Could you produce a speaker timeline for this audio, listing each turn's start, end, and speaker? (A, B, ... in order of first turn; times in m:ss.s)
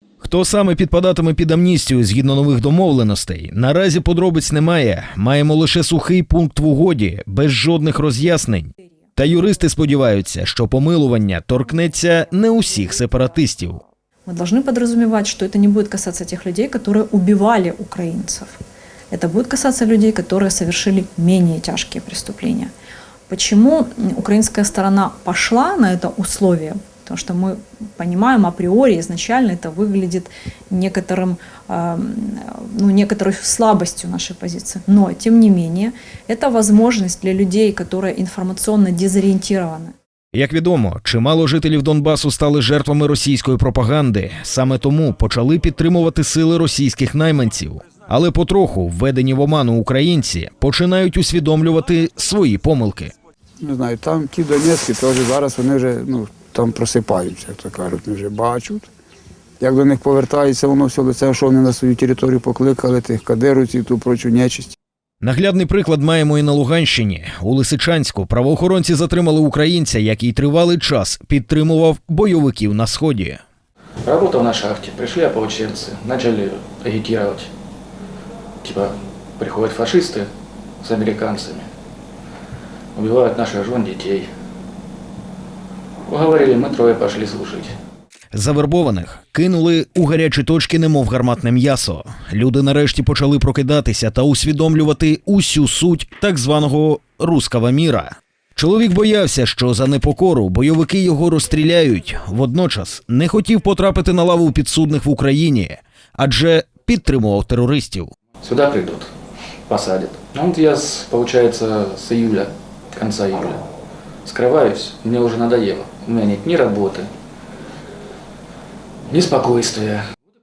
0:00.2-0:13.8 A
0:14.3-0:18.6 B
0:19.1-0:22.7 B
0:23.3-0:39.9 B
0:40.3-0:53.1 A
0:53.6-0:58.9 C
0:59.6-1:04.8 C
1:05.2-1:13.4 A
1:14.0-1:17.5 D
1:18.6-1:20.3 D
1:20.8-1:21.7 D
1:23.0-1:24.3 D
1:26.1-1:27.8 D
1:28.3-1:48.1 A
1:48.4-1:49.1 D
1:49.7-1:53.6 D
1:54.2-1:57.1 D
1:59.1-2:00.0 D